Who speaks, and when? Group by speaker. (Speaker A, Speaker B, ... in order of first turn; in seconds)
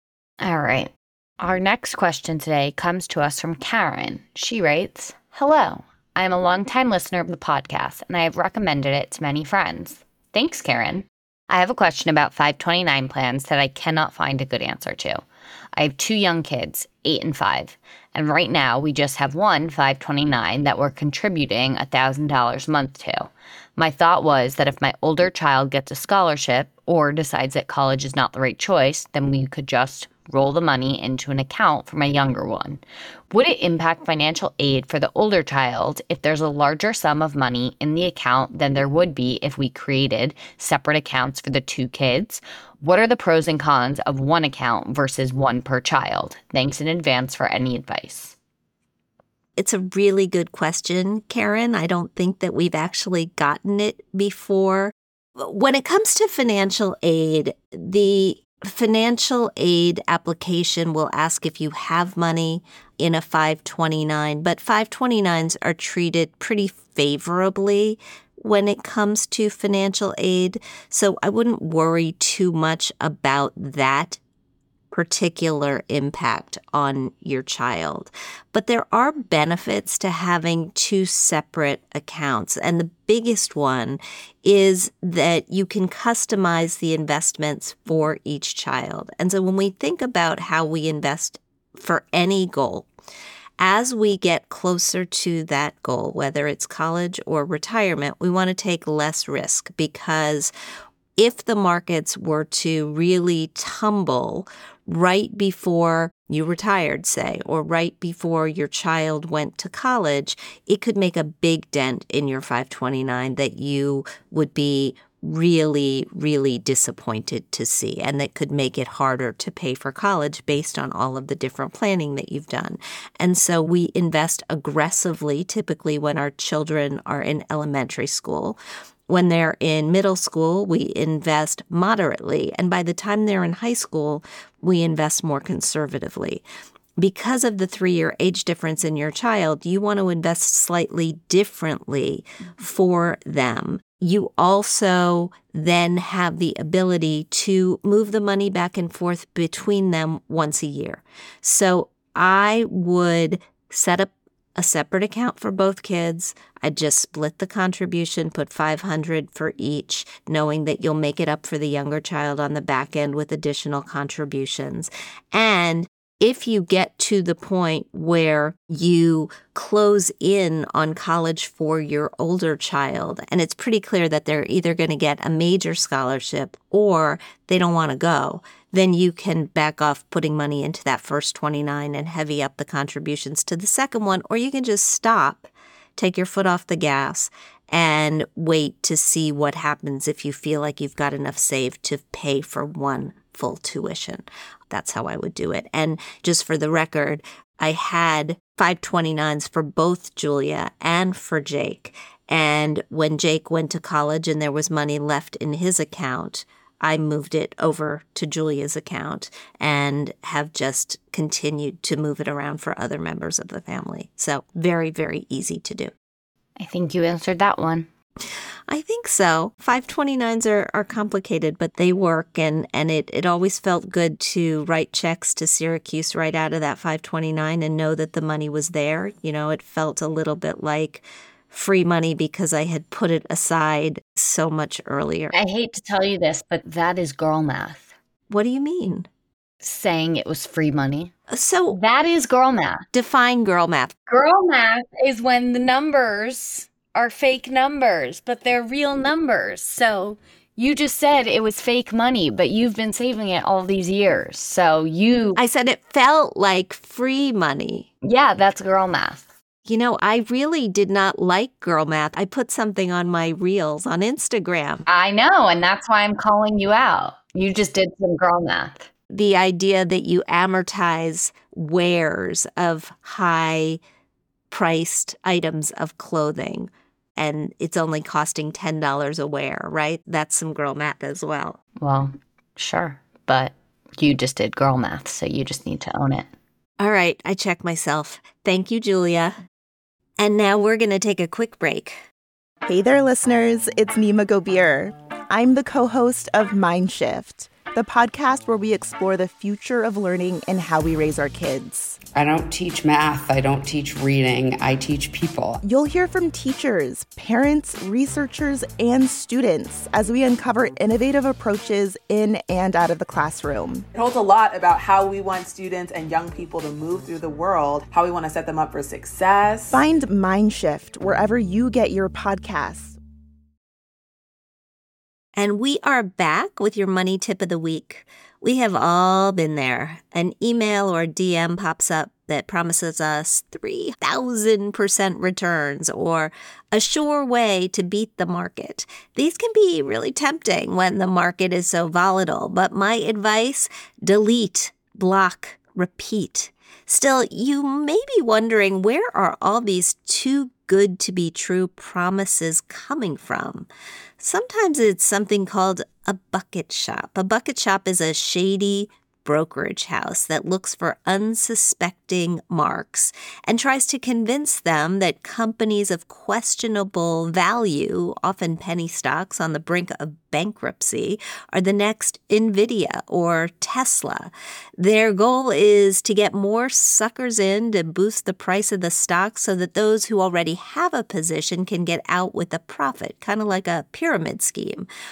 Speaker A: 0.4-15.2, 15.7-48.4, 216.6-217.9, 235.3-237.9, 239.6-241.1, 241.7-242.8, 244.1-255.4, 258.0-259.3, 264.9-268.9, 281.8-286.3
Speaker B: 49.6-74.2, 74.9-92.9, 93.6-100.5, 101.2-128.6, 129.1-136.4, 137.0-215.9, 218.7-235.3, 238.3-239.1, 241.3-241.8, 242.9-243.9, 255.3-257.9, 259.6-264.8, 269.1-273.8, 274.5-281.6, 286.8-289.4, 290.2-292.0, 325.4-353.7, 354.2-384.9
Speaker C: 292.6-302.0, 305.6-313.8, 319.7-323.0
Speaker D: 302.1-305.6
Speaker E: 313.9-319.8